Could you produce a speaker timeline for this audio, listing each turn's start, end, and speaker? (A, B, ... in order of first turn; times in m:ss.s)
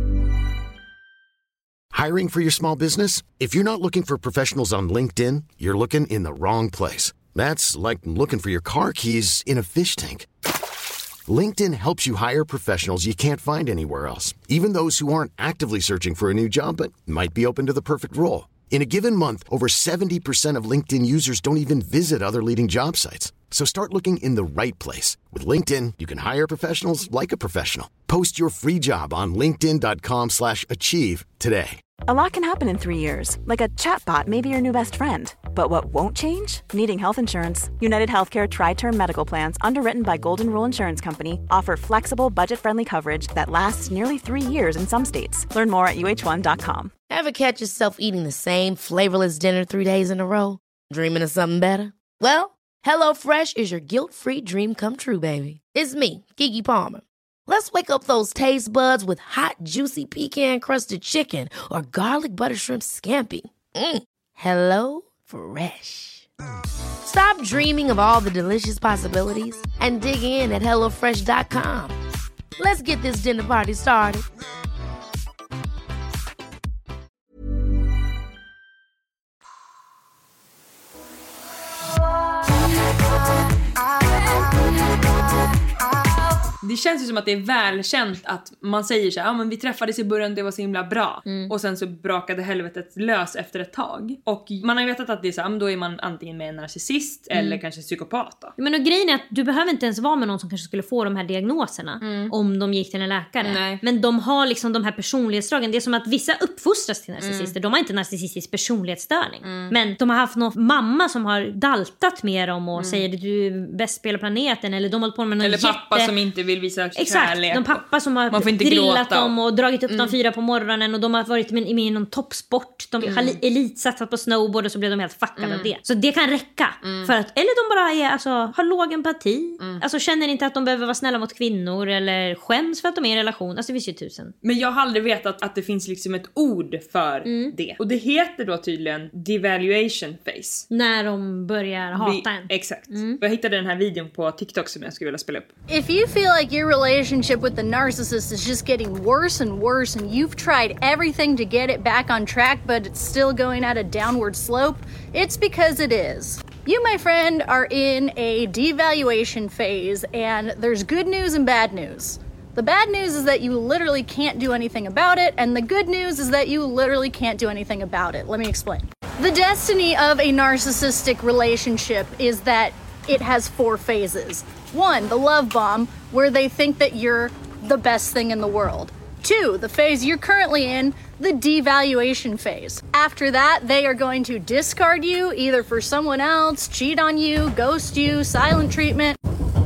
0:01.9-0:10.3 A
0:11.3-0:31.8 A
0:32.0-0:46.9 B
0:47.1-1:06.3 C
1:07.0-1:12.0 C
1:12.6-1:14.2 C
1:26.6-1:38.5 D
1:31.2-1:31.5 E
1:37.3-1:37.6 E
1:38.6-1:56.1 E
1:42.0-1:42.3 D
1:43.4-1:43.8 D
1:47.2-1:47.5 D
1:49.4-1:49.7 D
1:52.8-1:53.0 D
1:55.4-1:59.3 D
1:57.0-2:14.3 E
2:03.0-2:03.4 D
2:05.4-2:05.7 D
2:06.8-2:07.1 D
2:14.4-2:20.6 D
2:17.2-2:17.6 E
2:20.7-2:23.2 E
2:21.9-2:25.5 D
2:25.7-3:09.2 F